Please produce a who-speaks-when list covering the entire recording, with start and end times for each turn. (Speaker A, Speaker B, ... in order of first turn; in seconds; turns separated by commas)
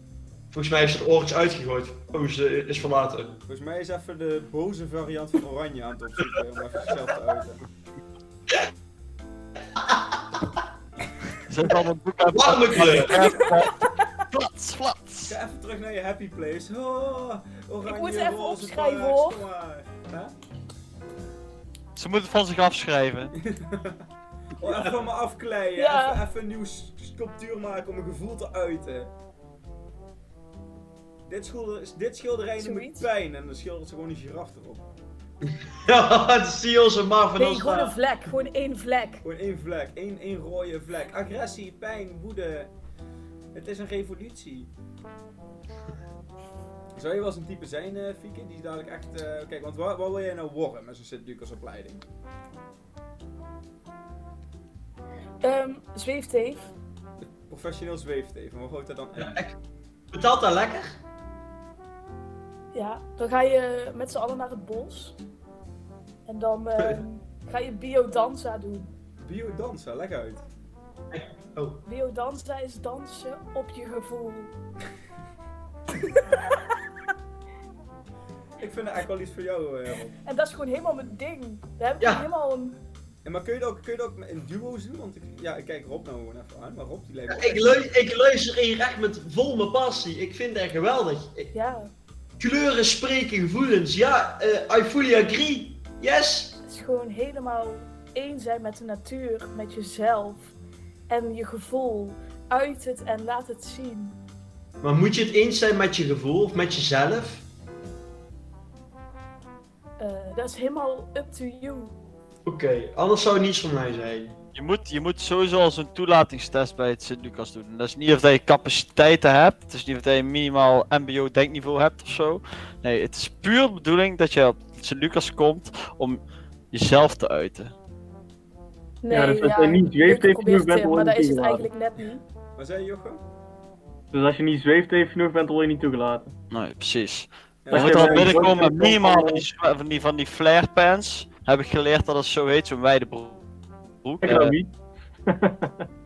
Speaker A: 0.5-3.4, Speaker B: 3.5-7.6, Speaker A: 9.8-10.2, Speaker C: 11.5-15.3, Speaker A: 12.3-13.3, Speaker D: 13.1-13.8, Speaker B: 15.2-20.4, Speaker D: 17.8-19.4, Speaker C: 22.0-23.3, Speaker B: 23.4-24.0, Speaker B: 24.6-29.1, Speaker D: 25.8-26.2, Speaker B: 31.3-34.9, Speaker D: 32.6-33.1, Speaker A: 35.8-38.0, Speaker D: 37.4-39.2, Speaker B: 39.2-42.7, Speaker B: 43.5-44.7, Speaker B: 47.0-52.0, Speaker D: 55.4-56.7, Speaker B: 57.5-59.4, Speaker A: 59.2-59.5, Speaker A: 60.1-61.0, Speaker D: 62.7-65.2, Speaker D: 66.3-68.9, Speaker B: 69.2-70.4, Speaker A: 71.1-71.8, Speaker D: 71.8-74.5, Speaker B: 78.6-80.2, Speaker D: 80.2-82.8, Speaker A: 82.0-82.3, Speaker B: 83.2-87.8, Speaker A: 87.3-91.5, Speaker D: 91.5-91.9, Speaker A: 92.4-96.6, Speaker D: 96.7-100.5, Speaker D: 101.1-104.2, Speaker A: 104.8-107.5, Speaker D: 110.0-111.9, Speaker A: 112.5-114.4, Speaker C: 114.5-127.7, Speaker D: 129.0-132.2, Speaker E: 129.1-131.7, Speaker B: 132.6-133.2, Speaker E: 134.1-136.3, Speaker C: 136.5-143.4, Speaker B: 137.6-138.6, Speaker E: 137.7-139.4, Speaker C: 144.0-144.6, Speaker E: 144.2-144.7, Speaker E: 145.3-145.8